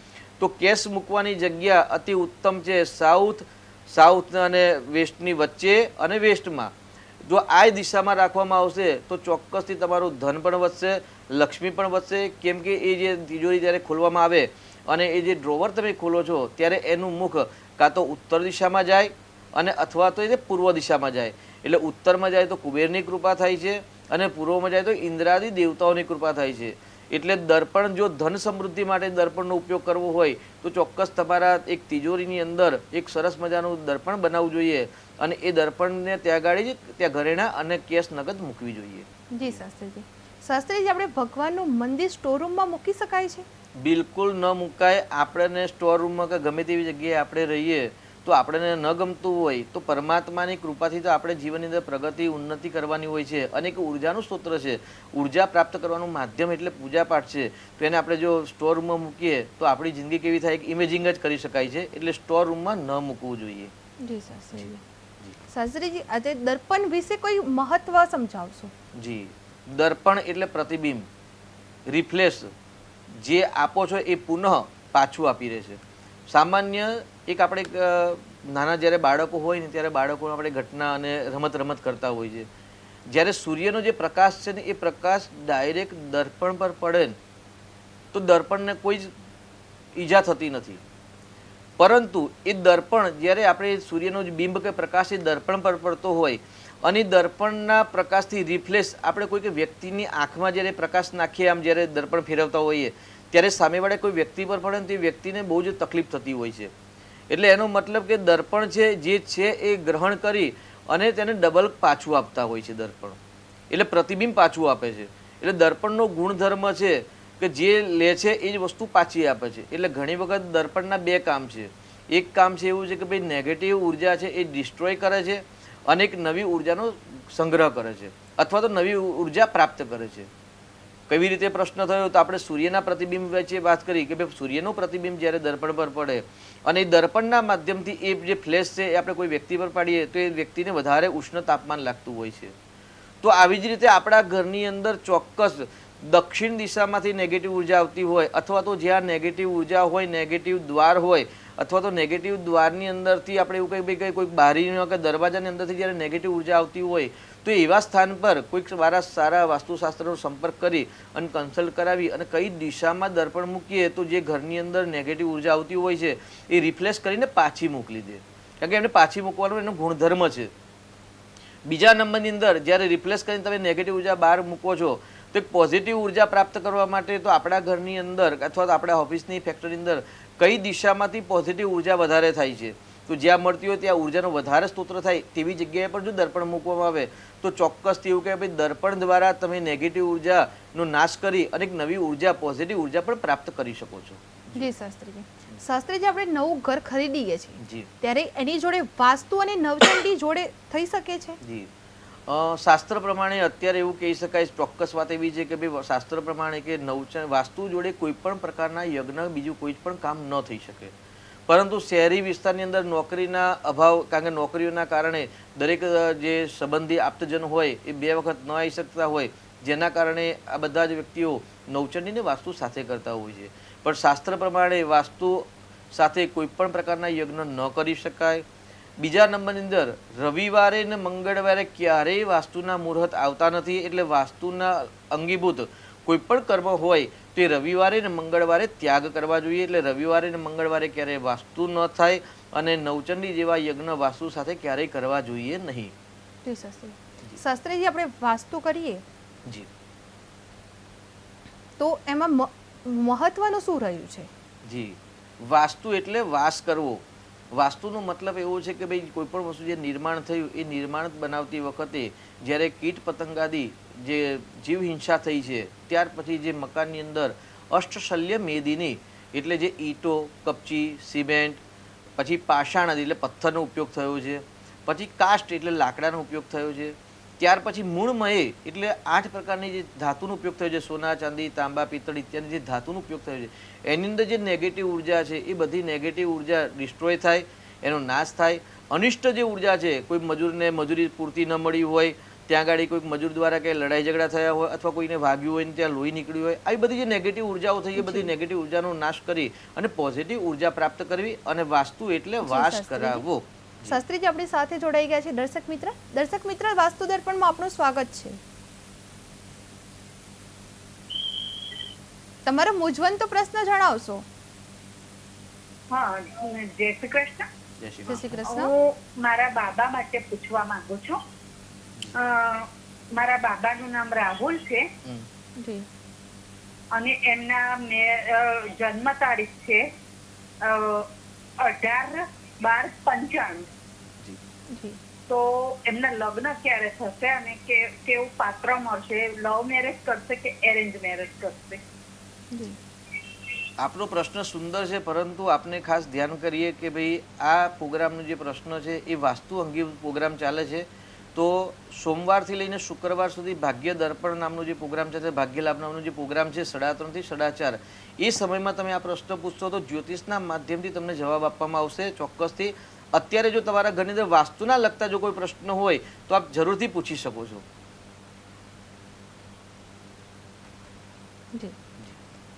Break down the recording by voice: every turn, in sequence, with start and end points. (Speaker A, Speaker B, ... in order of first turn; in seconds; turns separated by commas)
Speaker A: 0.4-39.6, Speaker B: 39.3-43.5, Speaker A: 43.8-63.7, Speaker B: 64.0-64.8, Speaker B: 65.5-68.7, Speaker A: 69.0-71.1, Speaker A: 71.9-72.5, Speaker A: 73.1-82.5, Speaker A: 83.1-87.2, Speaker A: 88.1-89.1, Speaker A: 90.0-90.8, Speaker A: 91.8-106.7, Speaker A: 107.3-113.2, Speaker A: 113.7-130.3, Speaker A: 131.1-142.6, Speaker A: 143.2-170.5, Speaker A: 171.7-194.7, Speaker B: 194.6-201.4, Speaker A: 197.6-197.9, Speaker A: 201.4-201.7, Speaker A: 202.3-210.9, Speaker A: 211.5-228.4, Speaker A: 229.0-245.9, Speaker B: 246.4-249.0, Speaker B: 251.8-254.3, Speaker A: 254.7-271.6, Speaker A: 272.2-304.0, Speaker B: 298.0-298.3, Speaker B: 302.4-303.2, Speaker B: 303.9-308.4, Speaker B: 312.5-314.2, Speaker C: 315.9-317.5, Speaker A: 317.8-318.4, Speaker B: 318.1-318.7, Speaker C: 318.5-321.2, Speaker C: 322.1-324.9, Speaker B: 325.6-325.9, Speaker C: 327.0-329.8, Speaker C: 330.6-331.1, Speaker C: 331.6-333.7, Speaker B: 334.7-335.0, Speaker C: 335.3-341.8, Speaker B: 342.5-342.8, Speaker A: 343.8-367.7